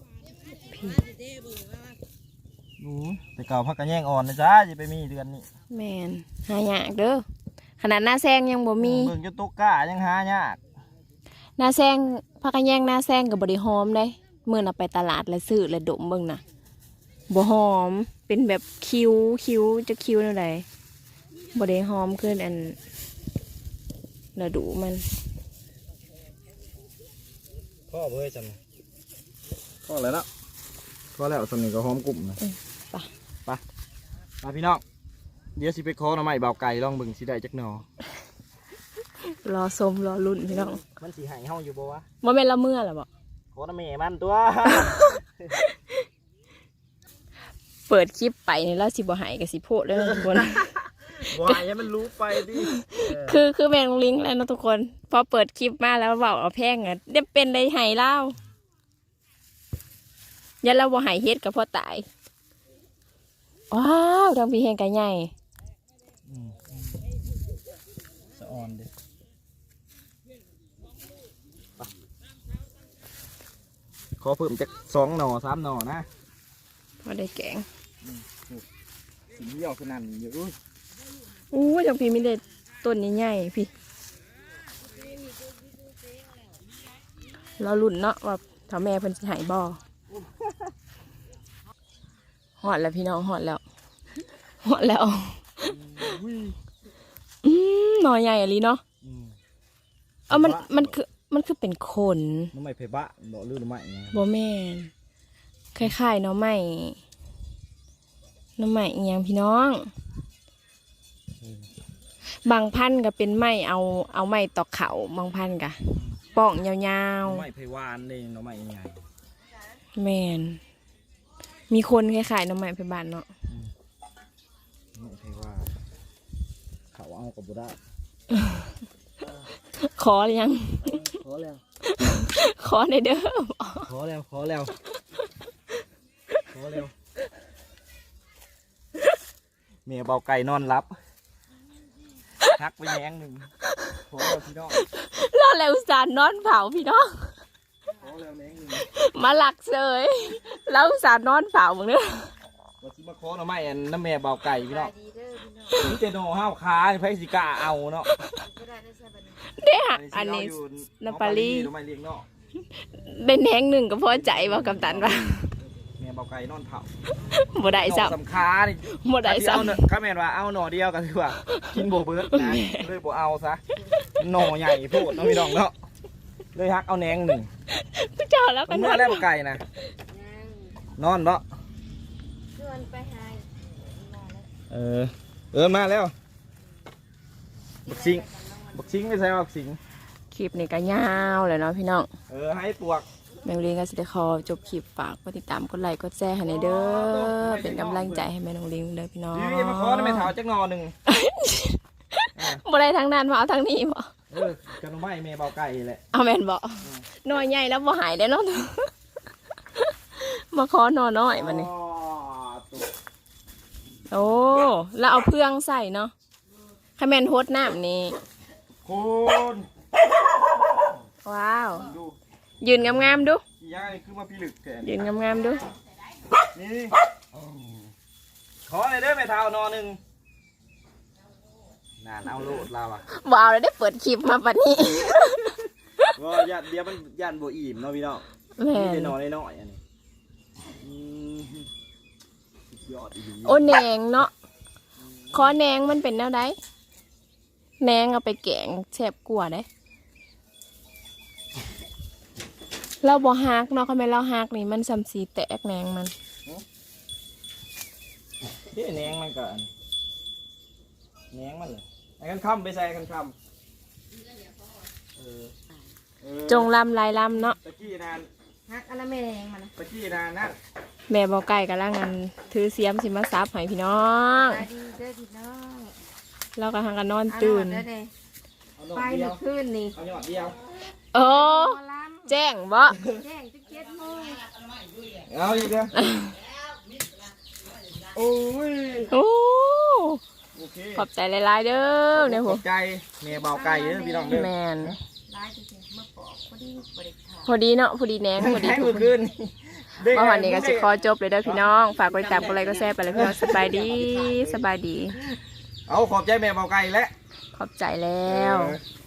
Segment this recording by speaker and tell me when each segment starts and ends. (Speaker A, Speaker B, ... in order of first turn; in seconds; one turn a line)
Speaker A: 0.7-1.0
Speaker B: 2.8-5.5
Speaker A: 5.7-7.2
Speaker A: 7.8-9.1
Speaker B: 8.8-10.6
Speaker A: 11.6-16.4
Speaker A: 17.3-20.7
Speaker A: 21.6-22.8
Speaker A: 24.4-25.1
Speaker B: 27.9-28.6
Speaker B: 29.9-30.3
Speaker B: 31.1-32.4
Speaker A: 32.4-33.1
Speaker B: 34.4-34.8
Speaker B: 35.6-37.9
Speaker A: 39.2-40.8
Speaker B: 40.5-42.1
Speaker A: 42.2-43.1
Speaker B: 43.5-45.5
Speaker A: 44.7-46.0
Speaker A: 47.9-50.7
Speaker B: 49.9-53.4
Speaker A: 52.6-58.4
Speaker A: 60.6-62.1
Speaker A: 63.7-65.3
Speaker B: 66.3-67.1
Speaker B: 68.4-68.9
Speaker B: 74.2-76.1
Speaker A: 77.0-77.7
Speaker B: 78.0-78.7
Speaker B: 79.3-80.6
Speaker A: 81.5-83.7
Speaker A: 87.6-89.8
Speaker B: 90.1-90.7
Speaker A: 92.6-93.6
Speaker A: 94.6-96.2
Speaker B: 95.7-96.6
Speaker A: 97.4-98.8
Speaker B: 99.0-99.4
Speaker A: 100.3-102.5
Speaker B: 100.3-101.0
Speaker B: 102.5-104.2
Speaker A: 104.1-104.9
Speaker A: 105.8-107.0
Speaker A: 108.6-109.9
Speaker B: 111.4-111.7
Speaker A: 112.5-117.5
Speaker B: 117.2-119.0
Speaker A: 120.0-120.6
Speaker A: 121.7-123.3
Speaker B: 125.0-125.7
Speaker B: 126.9-127.8
Speaker A: 128.3-128.7
Speaker A: 129.8-131.1
Speaker B: 130.9-131.6
Speaker A: 131.9-133.9
Speaker B: 133.9-134.7
Speaker B: 136.5-136.9
Speaker B: 139.9-140.9
Speaker B: 142.5-143.5
Speaker B: 144.1-144.8
Speaker A: 144.8-147.3
Speaker B: 147.9-148.9
Speaker A: 148.9-152.3
Speaker B: 152.8-154.9
Speaker C: 155.0-155.6
Speaker B: 155.7-158.1
Speaker A: 158.1-158.5
Speaker C: 158.6-159.3
Speaker A: 159.4-161.7
Speaker B: 159.9-162.3
Speaker A: 162.7-165.5
Speaker B: 164.1-166.9
Speaker A: 167.2-168.2
Speaker B: 167.6-175.8
Speaker A: 168.9-169.8
Speaker A: 171.5-171.8
Speaker A: 172.3-172.8
Speaker A: 174.9-175.6
Speaker B: 176.5-177.5
Speaker A: 177.7-179.2
Speaker B: 178.7-179.6
Speaker B: 181.0-181.4
Speaker C: 182.6-183.5
Speaker C: 184.1-184.4
Speaker B: 184.7-186.1
Speaker B: 187.9-189.8
Speaker A: 190.3-192.1
Speaker B: 192.3-193.1
Speaker A: 193.4-200.3
Speaker B: 196.4-198.3
Speaker B: 199.3-200.9
Speaker A: 201.1-204.1
Speaker B: 202.4-202.6
Speaker B: 204.3-206.0
Speaker A: 206.1-208.9
Speaker A: 209.8-211.7
Speaker B: 211.3-212.9
Speaker A: 214.1-216.1
Speaker A: 217.0-218.2
Speaker B: 218.8-221.0
Speaker A: 221.2-221.9
Speaker B: 221.8-222.2
Speaker A: 222.6-223.4
Speaker B: 222.7-225.2
Speaker A: 224.8-225.7
Speaker B: 226.4-227.0
Speaker B: 228.7-230.0
Speaker B: 232.0-233.0
Speaker A: 233.1-236.1
Speaker B: 236.2-239.8
Speaker A: 238.6-239.2
Speaker B: 240.8-241.7
Speaker B: 242.7-243.8
Speaker A: 243.4-244.3
Speaker B: 245.0-245.5
Speaker A: 245.3-246.6
Speaker A: 247.8-249.7
Speaker A: 253.0-256.1
Speaker B: 258.7-259.7
Speaker B: 261.3-263.4
Speaker B: 265.2-265.6
Speaker B: 266.2-266.7
Speaker A: 266.5-267.6
Speaker B: 267.6-268.3
Speaker C: 268.7-269.7
Speaker B: 269.8-270.6
Speaker A: 271.1-274.7
Speaker C: 274.7-275.9
Speaker A: 276.6-277.9
Speaker C: 277.5-278.1
Speaker B: 278.8-280.6
Speaker C: 278.9-279.9
Speaker A: 281.1-283.0
Speaker C: 281.6-282.2
Speaker C: 283.1-284.7
Speaker B: 285.1-286.0
Speaker A: 286.0-286.3
Speaker B: 288.0-289.1
Speaker A: 289.1-290.2
Speaker B: 290.6-291.1
Speaker A: 291.0-292.6
Speaker B: 292.1-295.0
Speaker C: 293.7-294.2
Speaker A: 294.3-294.9
Speaker C: 295.3-297.4
Speaker A: 297.4-299.1
Speaker B: 298.4-301.6
Speaker A: 300.1-305.2
Speaker B: 302.2-304.6
Speaker B: 305.9-307.1
Speaker A: 307.5-308.8
Speaker B: 308.3-308.8